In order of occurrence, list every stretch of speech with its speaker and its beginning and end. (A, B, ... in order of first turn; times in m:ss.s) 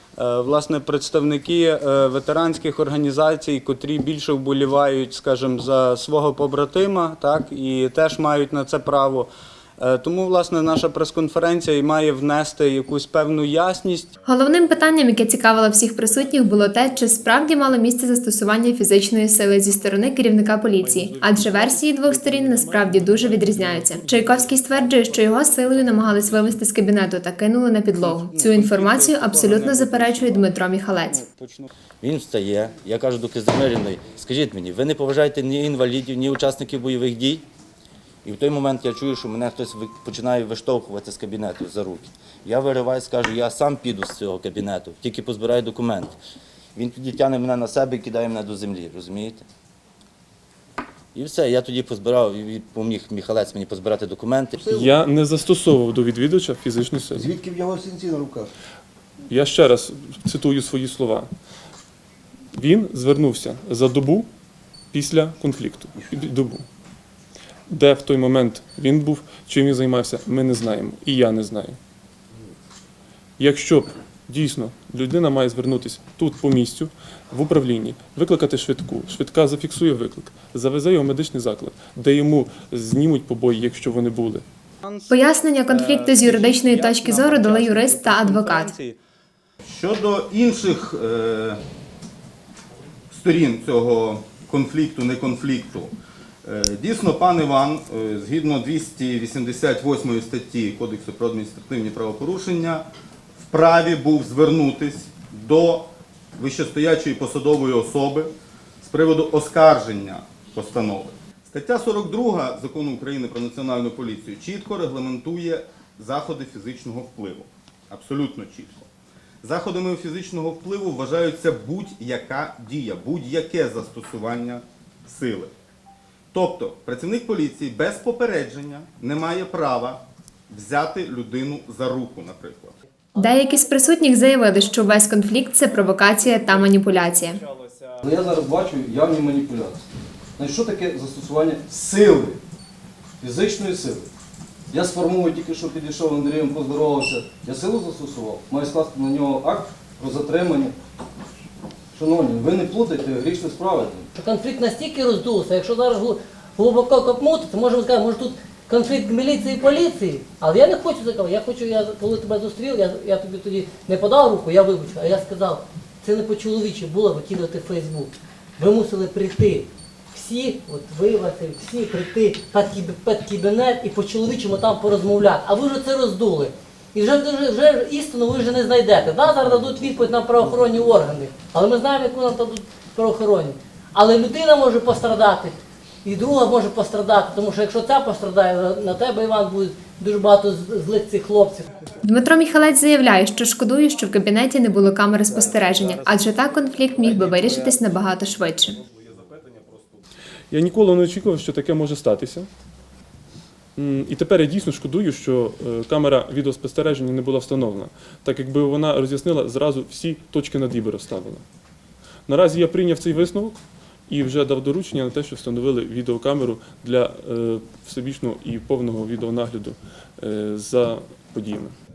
0:00.2-0:14.1 A
0:14.3-0:31.2 B
0:20.8-0:24.1 C
0:21.2-0:21.5 A
0:22.4-0:23.1 A
0:23.8-0:26.6 A
0:28.0-0:31.7 A
0:32.0-0:37.4 D
0:38.2-0:46.2 D
0:46.8-0:49.4 D
0:51.2-0:54.6 D
0:54.6-0:54.9 E
0:54.6-0:57.4 C
0:57.2-0:58.5 E
0:59.3-1:01.3 C
1:02.5-1:04.3 C
1:04.9-1:06.7 C
1:07.7-1:11.8 C
1:13.4-1:24.4 C
1:24.8-1:29.0 A
1:25.1-1:28.7 B
1:29.6-1:31.6 F
1:33.1-1:35.9 F
1:36.4-1:42.8 F
1:43.5-1:58.9 F
1:59.4-2:05.5 F
2:06.3-2:12.8 F
2:13.0-2:14.3 G
2:13.2-2:17.4 B
2:18.0-2:19.9 H
2:20.4-2:22.4 H
2:23.2-2:24.1 H
2:24.7-2:30.8 H
2:32.0-2:34.1 H
2:34.2-3:11.7 G
2:59.2-3:01.0 E
3:12.0-3:18.8 B
3:15.4-3:16.2 F
3:15.6-3:18.1 A
3:18.6-3:20.0 F
3:20.5-3:22.5 C
3:23.8-3:31.4 C
3:32.3-3:41.7 C